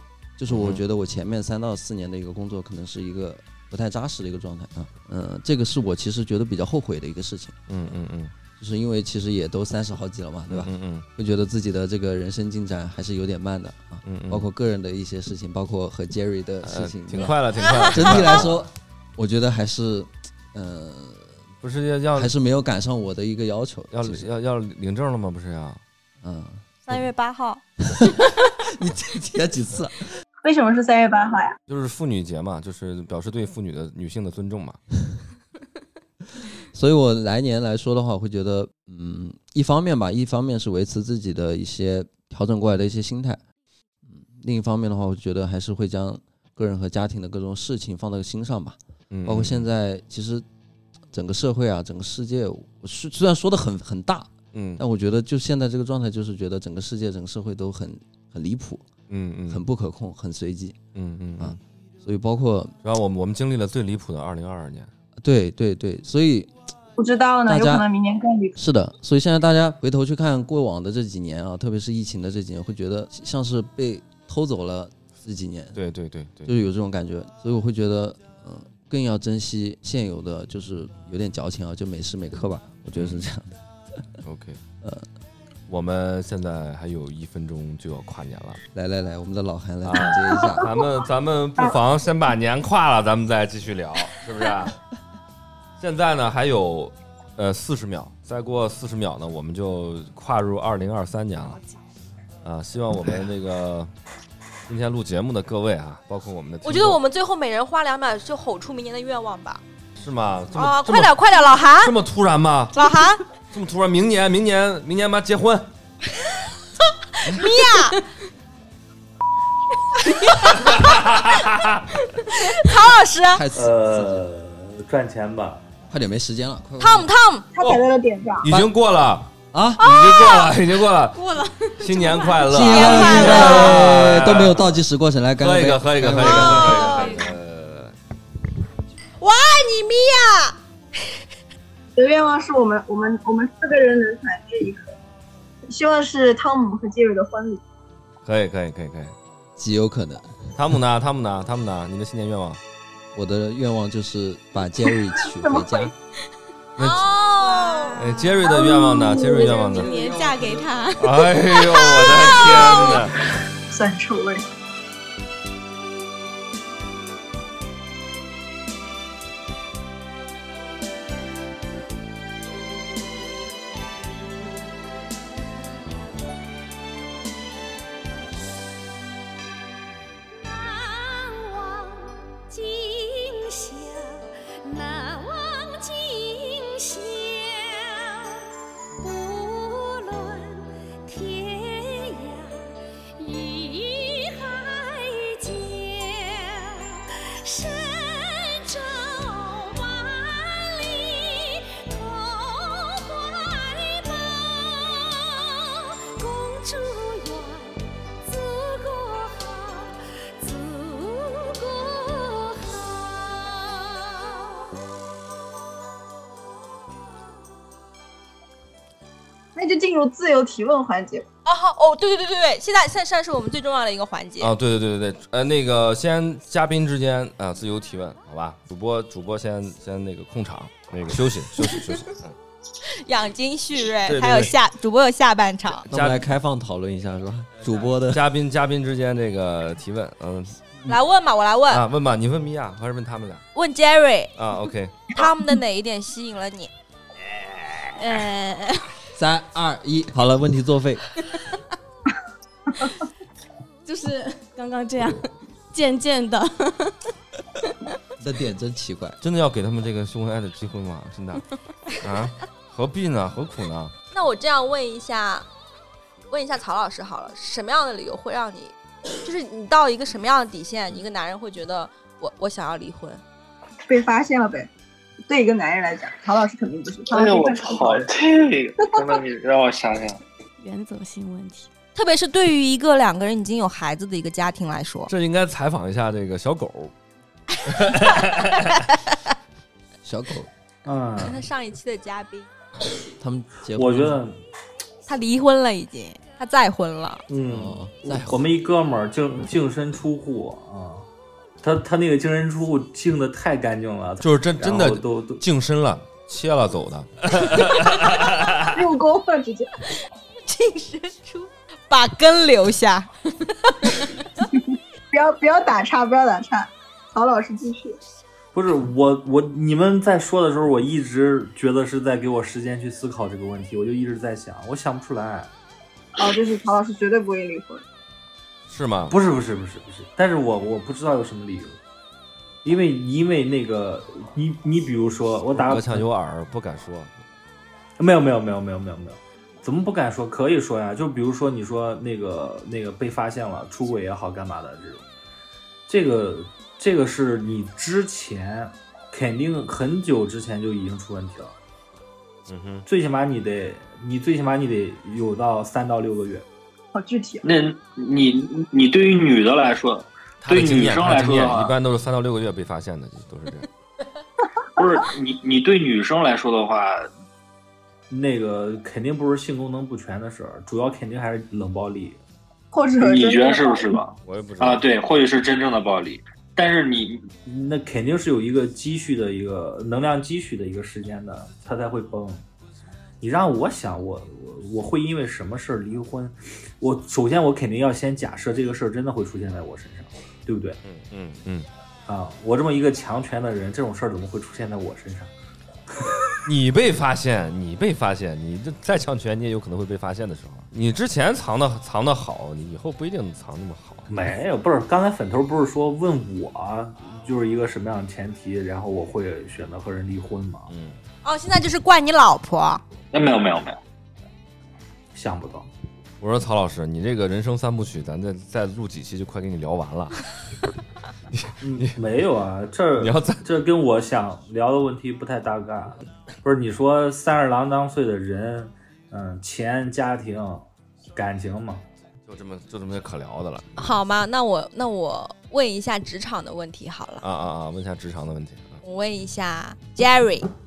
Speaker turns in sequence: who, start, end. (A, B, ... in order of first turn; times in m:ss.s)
0:00.4-0:07.6 A
0:00.5-0:00.8 B
0:07.7-0:08.3 B
0:08.6-0:21.4 A
0:10.5-0:11.1 B
0:14.0-0:14.5 B
0:16.6-0:18.6 B
0:21.6-0:22.3 B
0:22.2-0:24.2 A
0:23.9-0:25.8 B
0:26.2-0:26.6 A
0:26.8-0:27.6 C
0:27.9-0:30.0 A
0:30.4-0:31.6 D
0:31.7-0:34.8 B
0:36.7-0:43.4 A
0:44.0-0:50.4 A
0:49.1-0:49.7 B
0:51.1-0:58.8 A
0:54.5-0:54.8 B
0:59.1-0:59.6 B
0:59.5-1:00.8 A
1:00.9-1:01.6 B
1:01.4-1:02.7 A
1:02.8-1:04.9 B
1:05.2-1:06.5 A
1:07.0-1:08.5 D
1:07.5-1:07.8 A
1:08.6-1:15.8 A
1:15.7-1:16.5 B
1:16.5-1:23.5 A
1:22.9-1:23.2 B
1:24.2-1:24.6 B
1:25.7-1:28.6 B
1:28.7-1:30.7 A
1:29.8-1:34.7 B
1:35.8-1:41.6 B
1:42.4-1:43.9 B
1:44.7-1:47.0 B
1:46.6-1:49.6 C
1:50.0-1:51.1 B
1:50.5-1:51.9 C
1:51.8-1:52.8 B
1:52.7-1:53.2 C
1:53.5-1:55.7 B
1:57.2-1:58.0 C
2:00.0-2:00.8 C
2:00.6-2:01.8 B
2:02.4-2:03.4 C
2:03.3-2:04.2 A
2:03.5-2:05.6 E
2:05.9-2:07.1 A
2:06.8-2:07.5 C
2:07.5-2:08.5 D
2:08.4-2:11.2 B
2:09.5-2:09.8 A
2:09.9-2:10.5 C
2:11.1-2:13.2 F
2:11.8-2:14.6 B
2:12.5-2:16.8 A
2:12.6-2:13.9 C
2:15.4-2:17.9 B
2:16.2-2:17.2 C
2:16.7-2:17.3 F
2:19.2-2:20.6 C
2:22.0-2:24.9 D
2:25.7-2:27.6 D
2:28.2-2:29.1 B
2:29.6-2:30.4 A
2:30.5-2:32.6 B
2:33.1-2:35.9 A
2:35.4-2:35.9 D
2:36.8-2:37.1 B
2:36.8-2:37.9 C
2:37.4-2:42.9 F
2:38.0-2:39.9 B
2:41.0-2:43.2 B
2:43.7-2:44.4 D
3:00.3-3:08.4 G
3:09.0-3:34.6 G
3:39.6-3:41.2 D
3:41.4-3:44.5 C
3:44.4-3:52.3 B
3:52.9-3:55.8 C
3:54.1-3:54.5 B
3:55.9-3:58.2 A
3:55.9-3:56.2 B
3:58.0-4:00.9 B
4:00.9-4:01.8 C
4:01.7-4:03.4 B
4:03.5-4:04.3 C
4:04.4-4:05.0 B
4:05.1-4:06.7 C
4:08.0-4:08.7 F
4:09.1-4:11.0 A
4:13.8-4:16.9 F
4:18.2-4:19.2 A
4:19.2-4:21.4 B
4:22.0-4:23.9 B
4:24.1-4:25.4 C
4:26.3-4:33.2 C
4:33.9-4:34.7 D
4:35.3-4:38.1 D
4:37.1-4:40.2 H
4:38.8-4:39.2 D
4:40.6-4:41.7 F
4:41.9-4:45.1 C
4:45.1-4:46.9 B
4:47.7-4:48.8 B
4:50.0-4:50.5 A
4:50.8-4:51.4 E
4:51.2-4:52.5 C
4:53.2-4:54.2 A
4:53.7-4:54.4 E
4:55.1-4:57.2 C
4:57.3-5:01.0 E
4:57.5-4:58.4 A
5:01.6-5:05.4 E
5:04.2-5:08.7 B
5:08.7-5:09.7 D
5:10.4-5:14.1 C
5:15.1-5:18.0 D
5:18.5-5:25.5 E
5:26.2-5:27.8 D
5:28.7-5:29.2 B
5:29.1-5:31.8 E
5:32.6-5:36.0 E
5:35.6-5:37.2 B
5:38.0-5:45.0 E
5:45.9-5:51.5 E
5:52.5-5:52.8 B
5:52.8-5:56.4 E
5:56.9-5:57.5 D
5:57.4-6:01.7 H
6:00.4-6:03.7 B
6:04.8-6:07.1 H
6:08.1-6:12.2 E
6:12.7-6:14.0 D
6:13.0-6:17.3 H
6:14.2-6:14.8 B
6:17.4-6:22.4 E
6:23.2-6:30.8 E
6:30.8-6:31.7 B
6:32.0-6:35.3 E
6:36.4-6:44.1 B
6:44.1-6:50.7 E
6:50.7-6:51.0 B
6:51.2-6:52.8 C
6:53.1-6:53.8 H
6:55.1-6:55.7 E
6:56.2-7:00.2 B
7:01.3-7:02.0 B
7:01.6-7:11.8 E
7:03.0-7:03.4 B
7:12.3-7:13.7 B
7:13.8-7:17.2 C
7:17.2-7:18.8 B
7:18.8-7:20.5 C